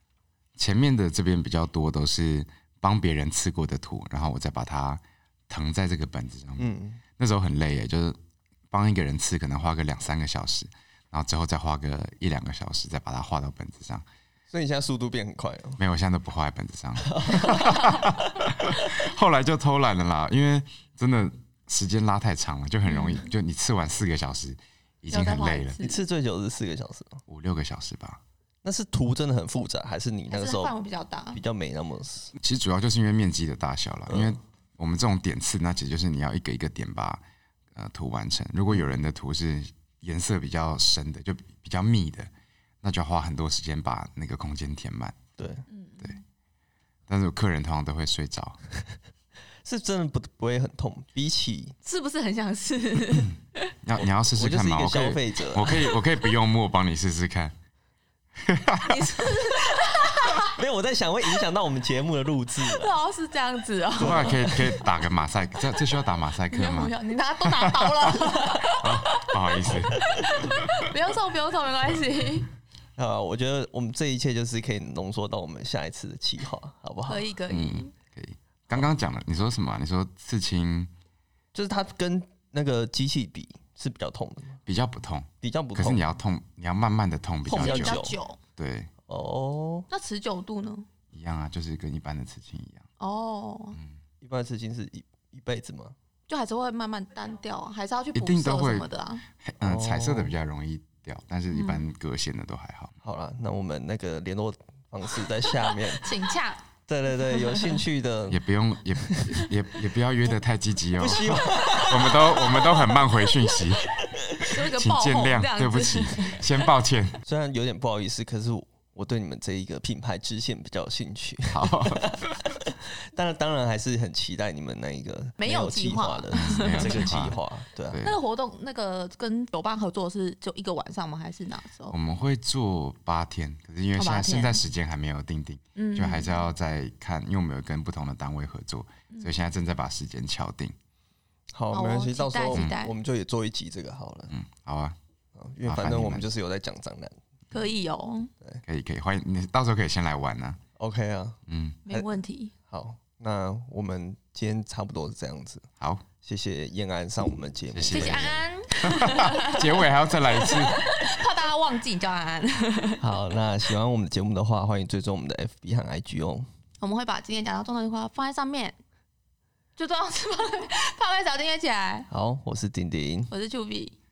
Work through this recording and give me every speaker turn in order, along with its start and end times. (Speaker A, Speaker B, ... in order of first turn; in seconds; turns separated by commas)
Speaker A: 0.6-8.2, Speaker B: 6.6-7.0, Speaker A: 8.7-14.1, Speaker B: 14.5-15.8, Speaker A: 15.8-25.8, Speaker B: 17.1-18.0, Speaker C: 22.9-23.3, Speaker C: 25.1-26.0, Speaker B: 25.8-27.2, Speaker A: 27.3-28.2, Speaker B: 28.6-30.7, Speaker C: 30.3-31.4, Speaker B: 31.3-32.3, Speaker A: 32.4-37.2, Speaker B: 34.1-34.4, Speaker A: 37.7-42.3, Speaker A: 42.8-45.2, Speaker B: 45.4-45.6, Speaker C: 45.7-46.2, Speaker A: 47.1-48.6, Speaker B: 49.6-51.8, Speaker C: 51.9-53.7, Speaker A: 53.8-57.5, Speaker B: 54.0-55.8, Speaker A: 58.4-59.0, Speaker C: 58.9-60.6, Speaker B: 60.3-62.9, Speaker C: 62.6-64.9, Speaker A: 64.0-71.0, Speaker B: 64.0-64.4, Speaker C: 66.5-72.5, Speaker B: 73.0-77.3, Speaker C: 77.1-77.9, Speaker A: 77.5-80.9, Speaker B: 81.5-84.6, Speaker A: 84.7-88.1, Speaker B: 85.4-86.1, Speaker B: 87.5-88.2, Speaker C: 87.5-88.4, Speaker A: 88.6-88.9, Speaker B: 89.1-89.9, Speaker C: 89.9-90.9, Speaker A: 91.1-92.9, Speaker C: 93.0-93.8, Speaker B: 94.2-96.0, Speaker C: 96.3-99.2, Speaker A: 98.2-103.0, Speaker B: 99.6-100.3, Speaker C: 101.5-101.8, Speaker B: 103.0-106.1, Speaker C: 105.7-106.6, Speaker B: 106.9-108.4, Speaker C: 107.3-107.8, Speaker A: 108.3-117.2, Speaker B: 109.0-109.5, Speaker B: 111.0-112.6, Speaker C: 111.7-113.6, Speaker B: 114.2-114.5, Speaker C: 114.3-116.7, Speaker B: 117.3-128.0, Speaker A: 121.5-122.2, Speaker C: 125.4-127.2, Speaker A: 126.3-127.4, Speaker A: 127.9-128.2, Speaker C: 128.0-131.9, Speaker A: 131.9-140.8, Speaker C: 134.0-134.6, Speaker C: 135.8-136.3, Speaker B: 141.6-144.3, Speaker C: 141.7-142.9, Speaker A: 142.5-142.8, Speaker A: 144.3-145.0, Speaker B: 145.4-147.2, Speaker A: 145.7-146.3, Speaker C: 147.5-148.3, Speaker A: 148.7-150.6, Speaker B: 150.8-151.4, Speaker A: 151.5-151.8, Speaker C: 151.9-152.5, Speaker B: 152.7-155.7, Speaker A: 155.8-156.1, Speaker B: 156.2-158.4, Speaker A: 157.7-160.8, Speaker C: 157.9-163.0, Speaker B: 163.0-166.5, Speaker C: 166.8-168.8, Speaker C: 169.8-172.1, Speaker B: 172.1-173.3, Speaker C: 173.3-174.0